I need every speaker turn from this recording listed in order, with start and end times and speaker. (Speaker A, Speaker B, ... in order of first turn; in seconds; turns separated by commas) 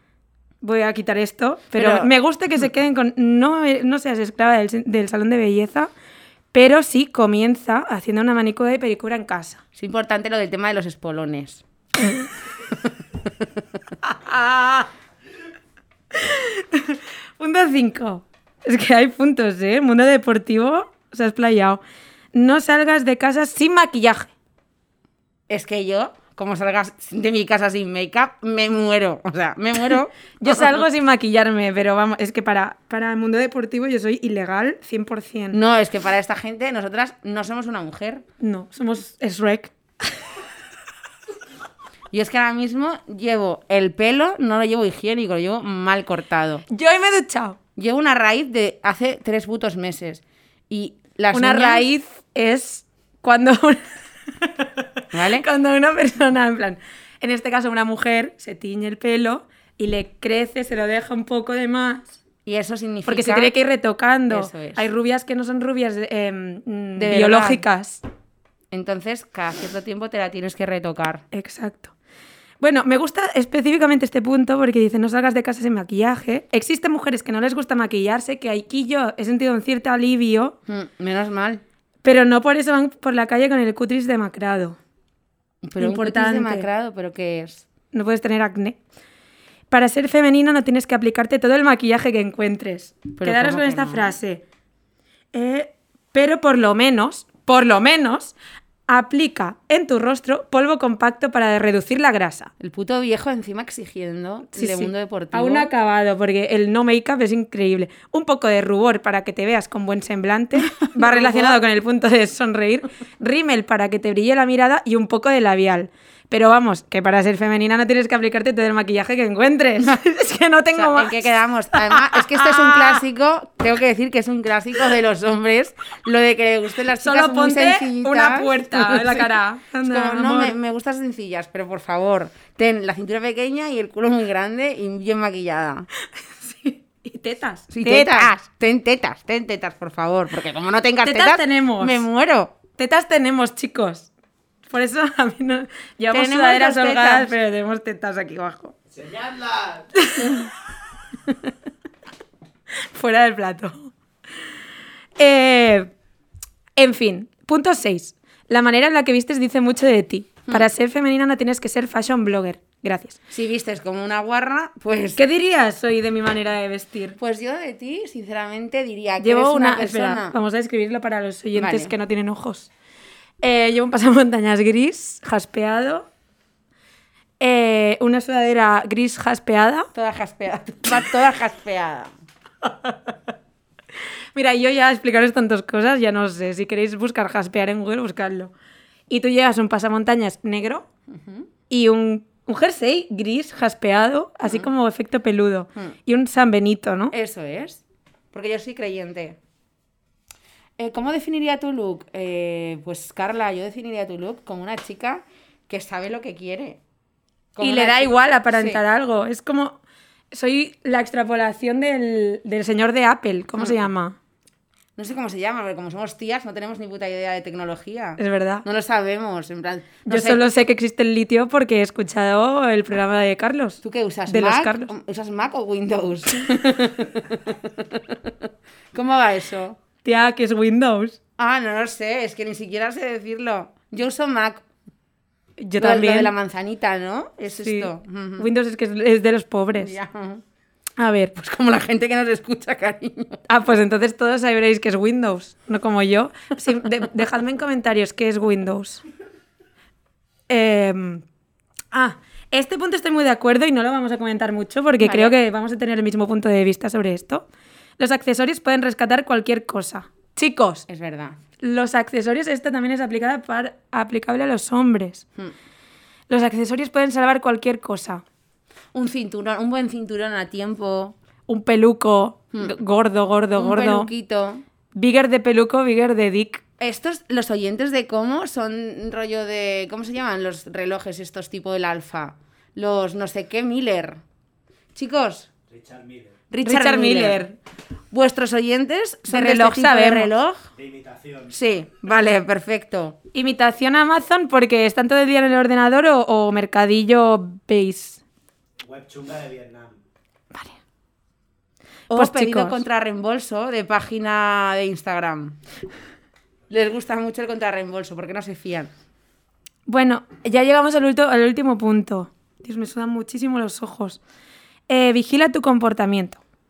Speaker A: 0.6-5.9, Speaker B: 1.7-2.1, Speaker A: 6.5-9.6, Speaker B: 9.8-11.6, Speaker A: 14.0-14.9, Speaker A: 16.1-21.8, Speaker A: 22.3-24.3, Speaker B: 25.5-30.8, Speaker A: 30.4-35.6, Speaker B: 35.5-38.2, Speaker A: 38.4-39.7, Speaker B: 42.1-46.6, Speaker A: 46.7-47.6, Speaker B: 47.8-51.9, Speaker A: 51.3-54.7, Speaker B: 55.1-55.5, Speaker A: 55.3-62.2, Speaker B: 62.5-63.5, Speaker A: 63.0-68.0, Speaker B: 64.3-64.9, Speaker B: 67.0-67.6, Speaker B: 68.7-71.2, Speaker A: 71.3-71.9, Speaker A: 72.6-80.6, Speaker B: 80.7-81.6, Speaker A: 82.0-84.8, Speaker B: 85.6-87.7, Speaker A: 85.8-86.7, Speaker A: 87.9-88.8, Speaker A: 89.7-94.4, Speaker B: 93.2-94.1, Speaker A: 95.3-98.4, Speaker A: 98.9-102.5, Speaker B: 102.6-105.7, Speaker A: 104.5-123.0, Speaker B: 110.6-111.6, Speaker B: 120.7-135.9, Speaker A: 127.0-130.6, Speaker A: 136.3-138.3, Speaker B: 137.7-142.6, Speaker A: 141.0-142.1, Speaker A: 142.8-144.1, Speaker A: 144.7-148.7, Speaker B: 146.1-147.3, Speaker C: 148.9-149.9, Speaker A: 150.0-150.5, Speaker A: 152.9-153.9, Speaker A: 155.2-155.9, Speaker A: 156.8-163.2, Speaker B: 163.3-165.2, Speaker A: 165.2-167.2, Speaker B: 167.2-170.4, Speaker A: 169.2-172.7, Speaker B: 171.6-171.9, Speaker A: 173.4-176.1, Speaker A: 177.4-179.9, Speaker B: 179.9-182.1, Speaker A: 184.3-188.5, Speaker A: 189.1-190.9, Speaker B: 191.1-191.5, Speaker A: 191.7-197.1, Speaker B: 197.1-199.4, Speaker B: 200.8-206.8, Speaker B: 207.6-208.8, Speaker A: 207.6-209.8, Speaker A: 210.3-214.2, Speaker B: 213.6-213.8, Speaker B: 215.0-220.5, Speaker A: 218.2-218.7, Speaker A: 220.1-224.9, Speaker B: 223.8-229.8, Speaker A: 230.0-231.2, Speaker B: 231.4-234.6, Speaker A: 235.6-236.3, Speaker B: 235.8-238.5, Speaker A: 237.5-240.0, Speaker B: 239.8-240.4, Speaker A: 241.0-241.3, Speaker B: 241.4-243.4, Speaker A: 243.5-249.0, Speaker A: 250.5-251.2, Speaker A: 251.9-257.5, Speaker B: 255.0-255.3, Speaker A: 258.0-260.9, Speaker B: 260.9-261.4, Speaker A: 261.6-265.2, Speaker A: 266.3-268.2, Speaker B: 268.9-271.1, Speaker A: 271.5-274.1, Speaker B: 273.6-274.6, Speaker A: 274.9-276.6, Speaker B: 276.8-284.2, Speaker B: 284.9-285.5, Speaker C: 285.7-286.4, Speaker B: 286.5-287.4, Speaker A: 286.6-287.6, Speaker B: 288.1-290.6, Speaker A: 289.3-290.3, Speaker C: 290.8-291.5, Speaker B: 291.5-293.2, Speaker A: 293.3-298.2, Speaker C: 298.8-300.0, Speaker A: 302.1-302.8, Speaker B: 302.1-305.6, Speaker B: 306.7-308.9, Speaker A: 309.9-314.2, Speaker A: 314.9-316.4